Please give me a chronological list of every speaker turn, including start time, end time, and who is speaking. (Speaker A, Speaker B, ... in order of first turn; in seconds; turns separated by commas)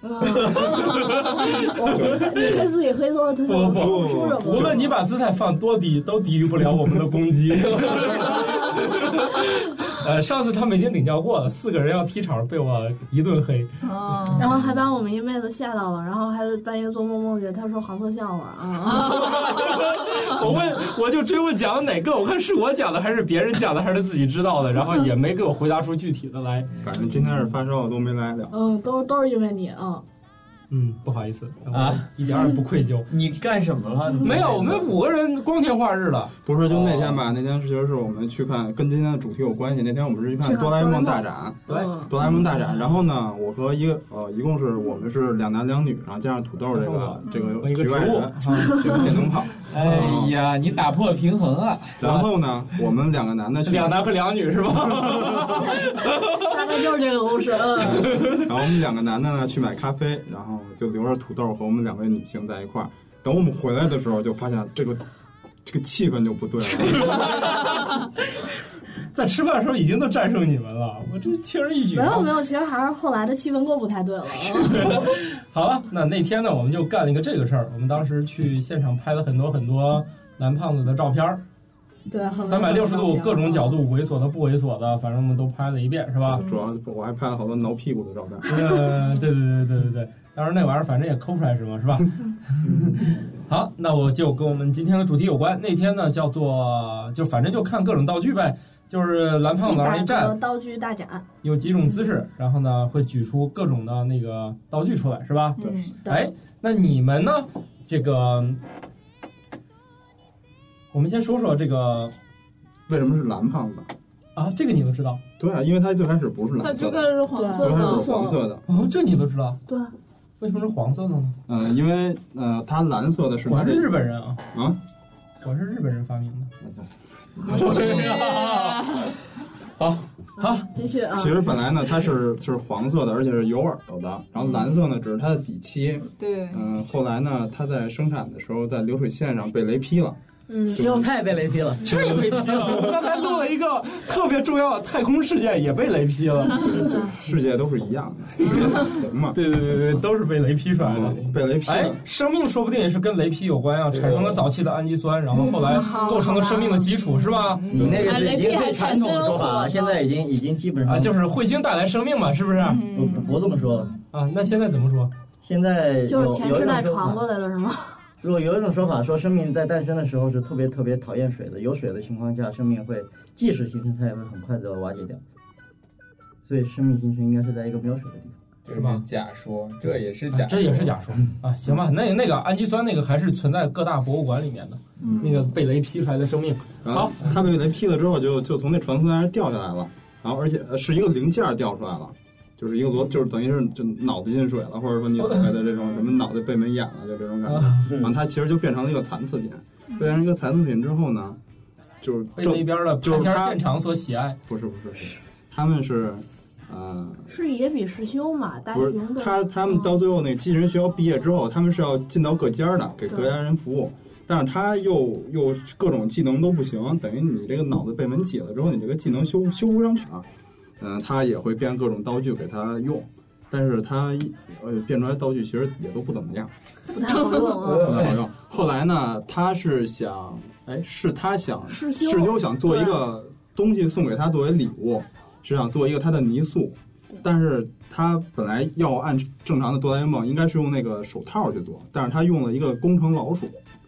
Speaker A: 0.1-0.8, Speaker B: 0.4-2.7, Speaker C: 0.5-1.2, Speaker D: 1.3-1.7, Speaker A: 1.5-4.9, Speaker D: 3.4-13.7, Speaker B: 3.7-4.9, Speaker E: 7.8-8.4, Speaker C: 13.8-14.5, Speaker A: 14.4-19.3, Speaker B: 14.4-14.7, Speaker C: 18.9-20.2, Speaker D: 19.1-26.7, Speaker B: 26.8-28.6, Speaker A: 28.5-30.0, Speaker D: 30.7-33.1, Speaker E: 31.7-32.1, Speaker E: 33.1-34.9, Speaker D: 34.2-36.3, Speaker B: 36.5-50.4, Speaker E: 36.7-37.2, Speaker A: 40.4-42.0, Speaker D: 41.7-42.1, Speaker D: 46.7-48.9, Speaker C: 47.2-47.6, Speaker A: 48.8-49.0, Speaker E: 49.7-52.0, Speaker D: 49.8-50.2, Speaker B: 52.0-54.1, Speaker D: 52.0-52.3, Speaker D: 53.6-56.5, Speaker A: 56.4-58.4, Speaker B: 58.1-65.0, Speaker B: 65.7-67.6, Speaker D: 66.9-68.0, Speaker D: 69.1-72.3, Speaker A: 72.0-75.1, Speaker D: 74.7-81.4, Speaker A: 82.1-83.8, Speaker D: 82.5-86.4, Speaker B: 86.3-88.6, Speaker D: 88.5-92.2, Speaker D: 92.7-100.4, Speaker A: 99.6-101.3, Speaker D: 101.4-108.6, Speaker C: 105.6-106.0, Speaker B: 105.6-105.8, Speaker A: 106.0-106.3, Speaker D: 110.9-112.1, Speaker B: 112.9-113.9, Speaker D: 114.4-115.2, Speaker B: 115.4-118.6, Speaker C: 116.6-118.1, Speaker A: 117.3-118.5, Speaker D: 118.7-119.6, Speaker D: 120.4-121.4, Speaker B: 121.5-123.9, Speaker D: 123.5-124.4, Speaker B: 124.5-124.8, Speaker D: 125.4-126.5, Speaker E: 127.4-129.1, Speaker A: 127.6-127.9, Speaker C: 127.9-129.1, Speaker A: 130.4-131.6, Speaker D: 130.4-130.7, Speaker B: 131.1-140.2, Speaker C: 136.2-136.7, Speaker A: 140.5-140.8, Speaker B: 140.7-141.1, Speaker F: 140.8-142.3, Speaker D: 141.8-146.9, Speaker B: 146.5-149.4, Speaker A: 146.8-147.1, Speaker D: 148.4-157.8, Speaker B: 150.8-152.0, Speaker E: 153.9-154.4, Speaker A: 155.3-156.9, Speaker C: 155.5-156.2, Speaker C: 157.2-160.0, Speaker F: 157.7-161.2, Speaker A: 159.4-159.8, Speaker D: 160.8-162.9, Speaker C: 162.6-163.5, Speaker F: 162.9-163.9, Speaker D: 164.1-165.1, Speaker F: 165.4-167.2, Speaker A: 166.1-168.0, Speaker F: 168.2-175.2, Speaker F: 176.5-178.4, Speaker E: 178.7-181.0, Speaker D: 178.7-179.0, Speaker D: 180.3-187.3, Speaker C: 185.0-185.5, Speaker B: 186.8-201.4, Speaker D: 195.2-195.5, Speaker D: 197.5-197.9, Speaker B: 202.0-203.6, Speaker D: 202.4-204.4, Speaker B: 204.5-207.3, Speaker A: 207.3-210.0, Speaker B: 208.7-220.3, Speaker B: 220.8-226.5, Speaker A: 226.9-228.1, Speaker E: 227.7-228.1, Speaker B: 227.7-243.6, Speaker A: 231.7-233.0